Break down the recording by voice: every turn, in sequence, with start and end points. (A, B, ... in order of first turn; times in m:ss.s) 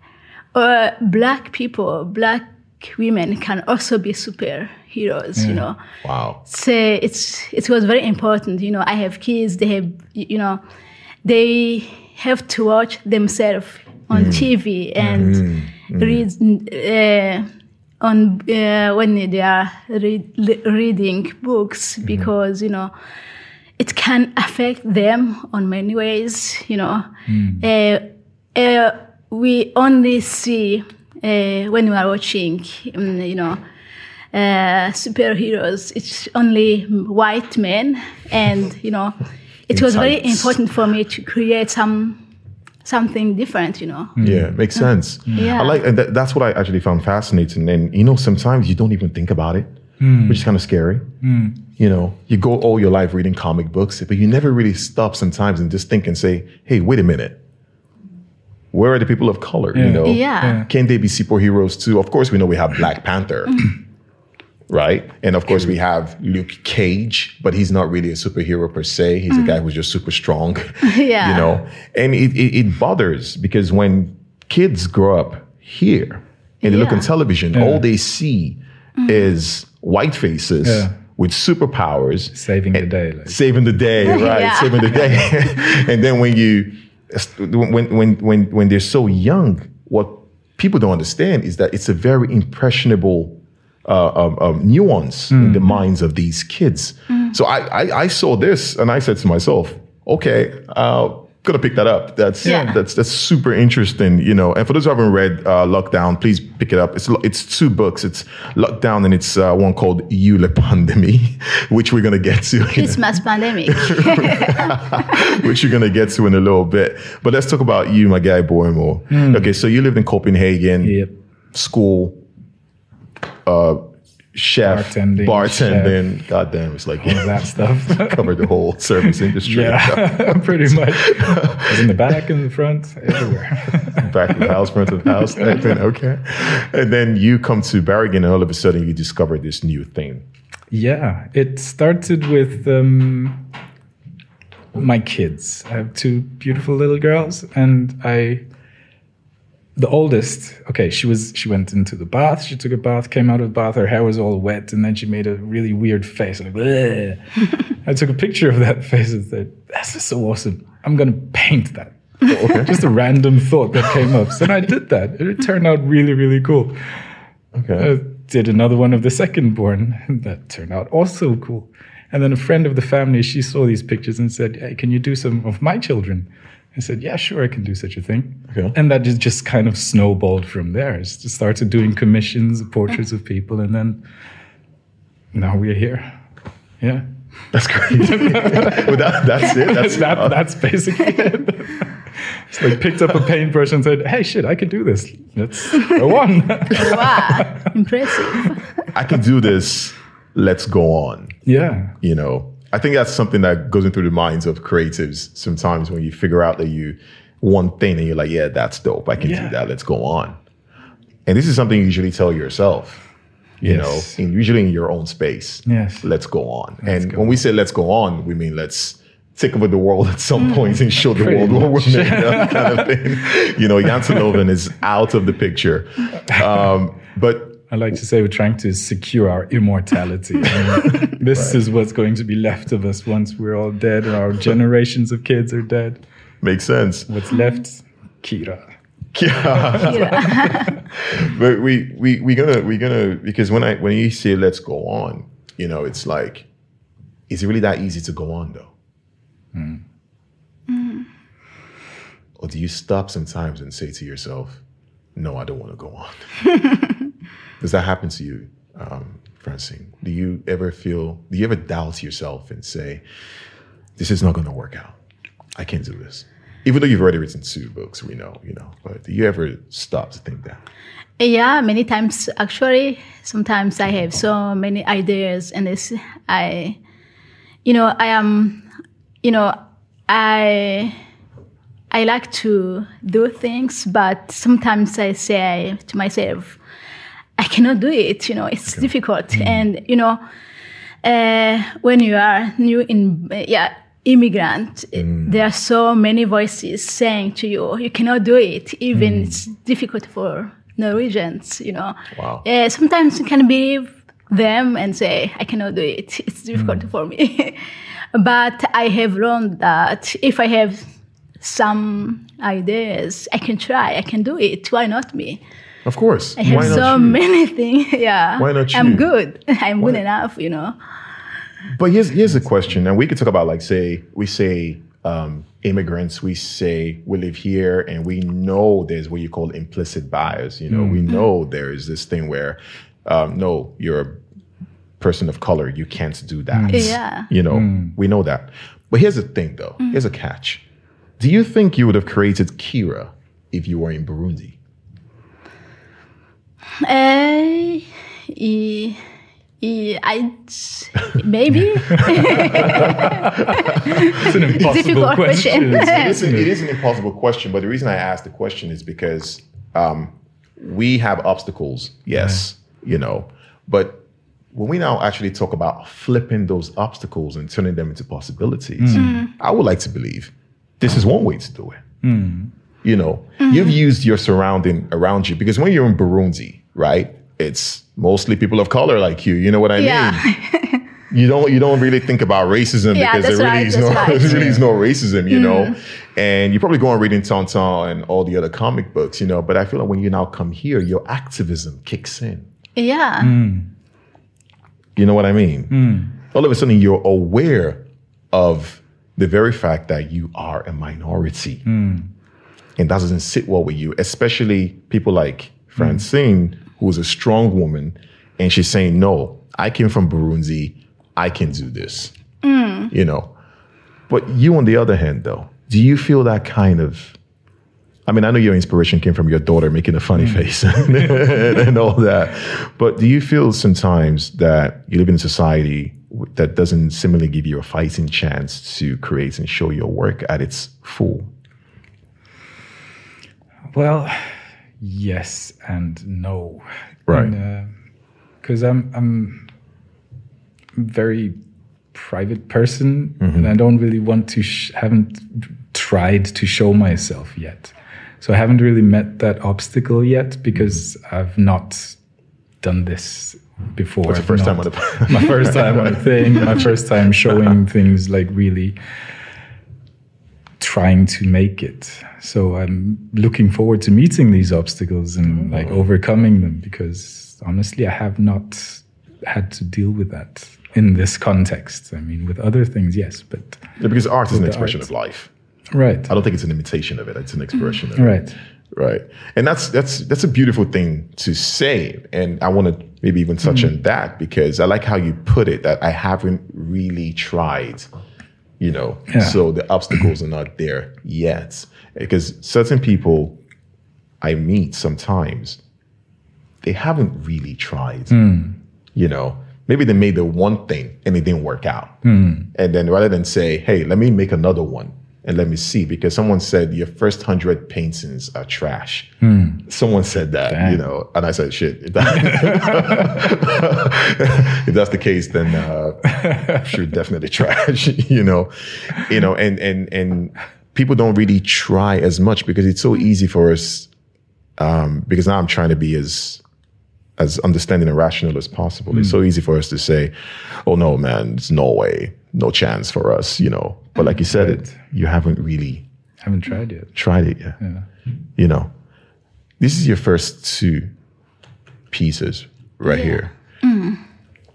0:00.5-0:05.8 A
0:05.4-0:05.6 B
0:06.0-0:06.4 C
0:06.4-0:10.6 A
0:11.2-0:17.5 A
0:14.1-0:14.5 C
0:15.0-0:15.3 B
0:15.1-0:16.2 C
0:18.0-0:22.9 A
0:23.8-0:27.1 A
0:27.3-0:27.6 B
0:27.6-0:33.6 A
0:34.3-0:42.2 A
0:39.7-0:40.6 C
0:42.8-0:44.2 A
0:44.2-0:44.5 B
0:44.2-0:49.7 C
0:45.3-0:45.8 A
0:50.0-0:50.5 B
0:50.2-0:51.1 C
0:51.2-0:51.6 B
0:51.8-0:57.4 C
0:58.7-1:03.7 C
0:59.7-1:00.7 B
1:00.0-1:00.6 A
1:04.7-2:01.0 C
1:09.3-1:09.6 A
1:10.8-1:11.6 A
1:16.6-1:17.1 A
1:17.5-1:17.8 B
1:19.0-1:19.3 A
1:20.6-1:21.0 B
1:22.3-1:23.4 B
1:24.0-1:25.3 A
1:35.3-1:35.8 B
1:42.4-1:42.7 A
1:42.4-1:42.8 B
1:52.7-1:54.8 A
1:59.1-1:59.5 B
2:00.8-2:01.1 B
2:01.5-2:02.2 C
2:03.5-2:03.8 C
2:04.3-2:12.1 C
2:04.6-2:06.0 B
2:07.0-2:08.3 B
2:09.4-2:14.6 B
2:14.0-2:20.2 C
2:20.7-2:23.5 B
2:24.7-2:28.4 B
2:29.8-2:46.8 B
2:42.2-2:42.9 C
2:47.5-2:47.9 C
2:47.8-3:04.0 B
3:05.3-3:06.1 B
3:06.8-3:07.1 B
3:07.5-3:10.4 C
3:08.0-3:17.7 B
3:16.7-3:18.9 A
3:18.9-3:21.4 C
3:21.5-3:22.0 B
3:22.0-3:30.4 C
3:29.2-3:29.6 B
3:31.2-3:33.0 C
3:33.6-3:47.6 C
3:33.6-3:34.2 B
3:35.6-3:36.1 B
3:36.8-3:37.4 B
3:41.1-3:43.0 B
3:47.7-3:56.0 B
3:51.3-3:51.6 C
3:56.4-3:57.1 C
3:57.1-3:58.6 B
3:59.1-4:06.5 C
3:59.6-4:00.6 B
3:59.8-4:00.8 A
4:07.3-4:08.7 C
4:09.5-4:09.8 B
4:10.7-4:11.1 A
4:12.4-4:14.6 C
4:15.2-4:16.2 C
4:17.6-4:23.0 C
4:24.0-4:25.0 C
4:25.6-4:30.6 C
4:31.2-4:36.8 A
4:37.6-4:38.6 A
4:39.2-4:39.6 A
4:40.1-4:41.0 A
4:41.9-4:46.6 A
4:47.4-4:50.2 A
4:49.3-4:49.6 B
4:51.0-5:10.9 A
4:55.0-4:55.4 C
4:58.9-4:59.4 B
5:02.1-5:02.4 C
5:11.4-5:15.4 A
5:15.8-5:17.2 C
5:16.4-5:20.8 A
5:16.5-5:16.8 B
5:18.4-5:19.1 C
5:21.7-5:34.2 C
5:30.7-5:31.0 B
5:35.0-5:40.6 C
5:36.5-5:37.0 B
5:36.7-5:37.3 A
5:37.5-5:38.0 B
5:41.2-5:44.6 C
5:46.8-5:49.0 A
5:49.6-5:56.2 A
5:51.7-5:56.5 B
5:52.4-5:53.0 C
5:55.7-6:11.8 C
6:08.8-6:09.2 B
6:08.9-6:09.3 A
6:12.0-6:12.5 B
6:12.8-6:20.2 C
6:13.4-6:13.8 A
6:19.8-6:20.8 A
6:21.1-6:32.5 C
6:23.0-6:24.6 A
6:24.3-6:24.6 B
6:25.3-6:25.8 A
6:32.8-6:33.4 A
6:33.2-6:33.7 B
6:35.0-6:41.6 C
6:35.7-6:36.1 B
6:41.6-6:42.1 B
6:42.8-6:52.1 C
6:52.4-6:52.9 A
6:52.9-6:53.3 C
6:54.1-6:57.2 C
6:58.1-7:11.3 C
7:00.2-7:01.3 B
7:13.7-7:17.8 B
7:17.1-7:17.3 C
7:18.4-7:19.5 B
7:20.8-7:21.4 B
7:21.9-7:32.0 B
7:23.2-7:23.5 C
7:32.6-7:38.8 B
7:34.0-7:36.8 C
7:37.3-7:37.6 C
7:40.6-7:53.8 B
7:45.4-7:45.9 C
7:53.8-7:55.3 C
7:54.3-7:54.9 B
7:55.7-7:56.1 B
7:56.1-8:07.9 C
7:58.0-7:58.4 B
8:03.4-8:03.7 B
8:08.6-8:13.4 C
8:09.1-8:09.4 B
8:14.2-8:15.6 C
8:16.6-8:18.2 C
8:18.1-8:18.6 B
8:19.0-8:22.0 C
8:22.0-8:22.5 B
8:22.5-8:29.1 C
8:29.2-8:29.6 B
8:29.6-8:43.9 C
8:30.5-8:30.8 B
8:32.2-8:33.2 B
8:36.1-8:36.6 B
8:44.6-8:46.4 C
8:47.2-8:55.8 C
8:48.9-8:49.2 B
8:54.3-8:54.8 B
8:56.2-8:57.0 B
8:57.0-8:57.6 C
8:57.6-8:57.8 B
8:58.4-8:58.7 C
8:59.6-9:00.9 C
9:01.9-9:03.3 C
9:02.8-9:04.0 A